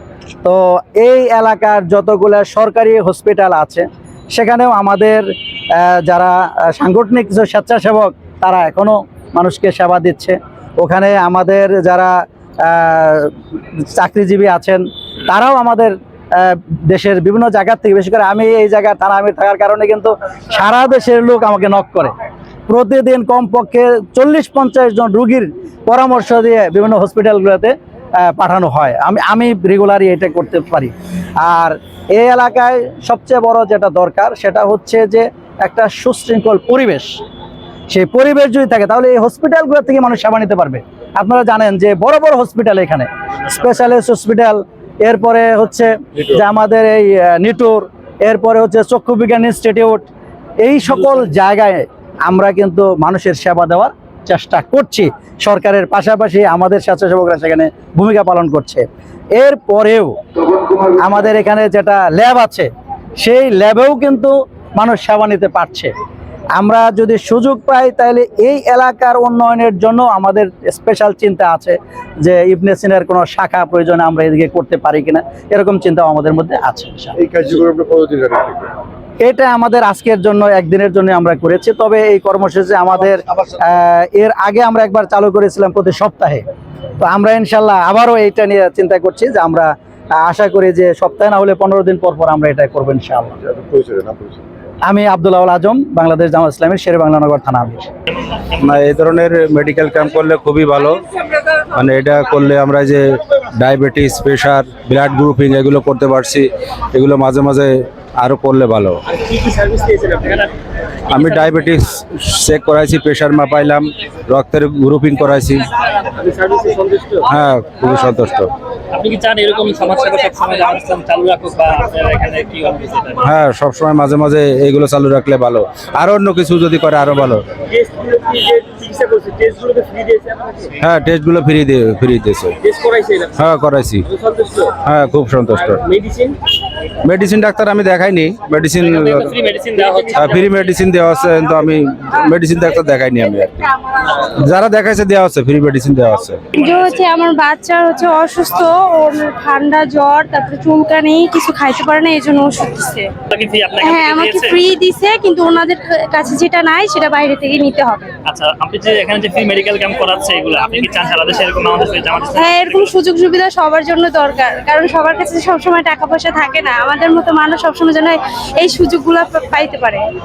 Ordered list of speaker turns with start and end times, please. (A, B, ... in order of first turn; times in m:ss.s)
0:00.4-0:22.1 A
0:22.7-0:37.2 A
0:37.9-0:50.1 A
0:50.6-1:00.2 A
1:00.9-1:05.9 A
1:06.6-1:17.2 A
1:17.3-1:18.7 B
1:19.2-1:26.4 A
1:27.0-1:33.4 A
1:33.6-1:34.3 B
1:34.8-1:37.9 A
1:38.6-1:41.0 C
1:41.7-1:49.0 C
1:50.1-1:50.4 D
1:51.1-1:55.7 C
1:57.3-1:58.5 C
1:58.9-2:03.2 D
2:03.2-2:07.4 C
2:08.0-2:10.2 D
2:10.8-2:12.6 C
2:13.4-2:14.0 C
2:14.8-2:15.8 C
2:17.0-2:19.4 C
2:19.0-2:20.4 D
2:20.2-2:23.6 C
2:24.2-2:26.4 C
2:26.5-2:27.0 D
2:26.7-2:33.0 E
2:33.3-2:34.6 D
2:33.8-2:37.9 E
2:38.2-2:42.8 D
2:42.4-2:50.0 E